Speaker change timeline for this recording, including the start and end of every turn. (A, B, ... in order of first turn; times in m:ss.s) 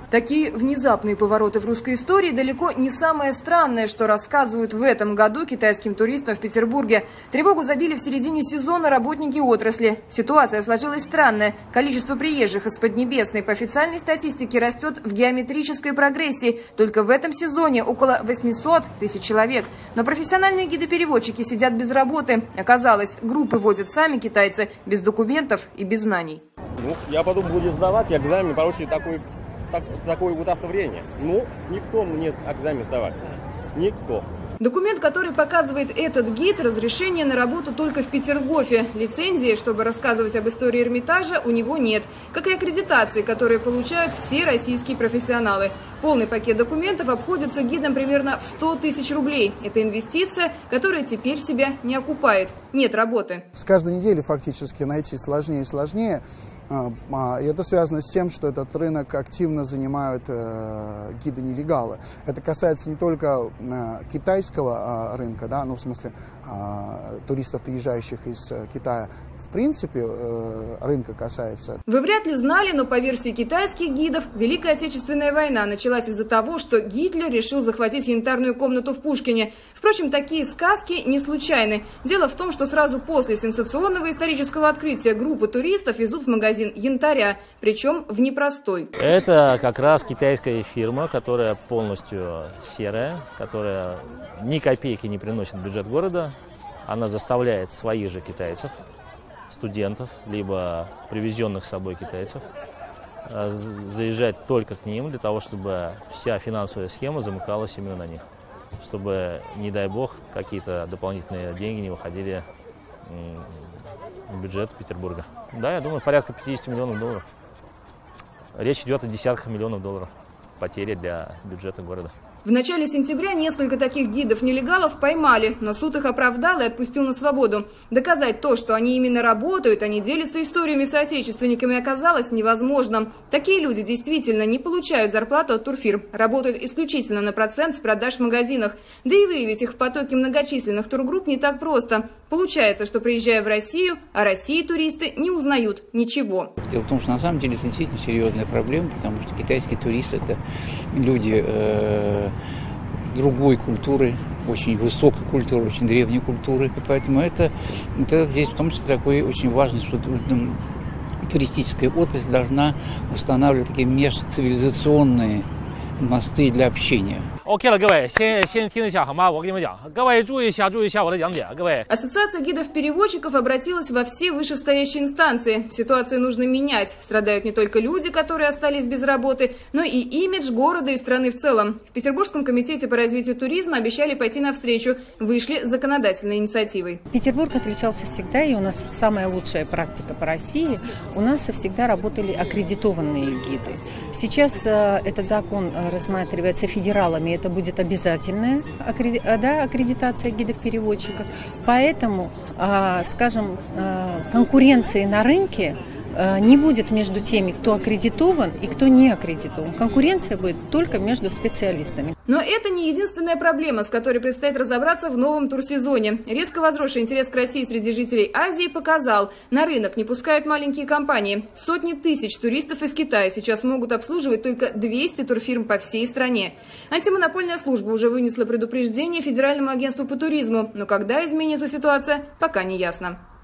0:00.1-0:26.4 A
0:26.8-0:29.2 B
0:29.7-0:33.1 B
0:33.8-0:34.2 B
0:34.6-0:53.4 A
0:53.5-1:11.8 C
1:11.9-1:28.9 A
1:29.0-1:36.3 D
1:36.8-1:38.8 D
1:39.5-1:42.4 D
1:43.3-1:48.2 D
1:48.8-1:52.4 D
1:53.0-1:53.7 D
1:54.3-1:57.2 D
1:58.5-2:02.1 D
2:02.4-2:26.5 A
2:26.6-2:30.4 E
2:30.9-2:32.3 E
2:33.1-2:40.6 E
2:41.2-2:45.5 E
2:46.0-2:47.3 E
2:47.4-2:51.8 D
2:51.9-3:07.0 A
3:07.1-3:32.1 F
3:32.3-3:53.2 A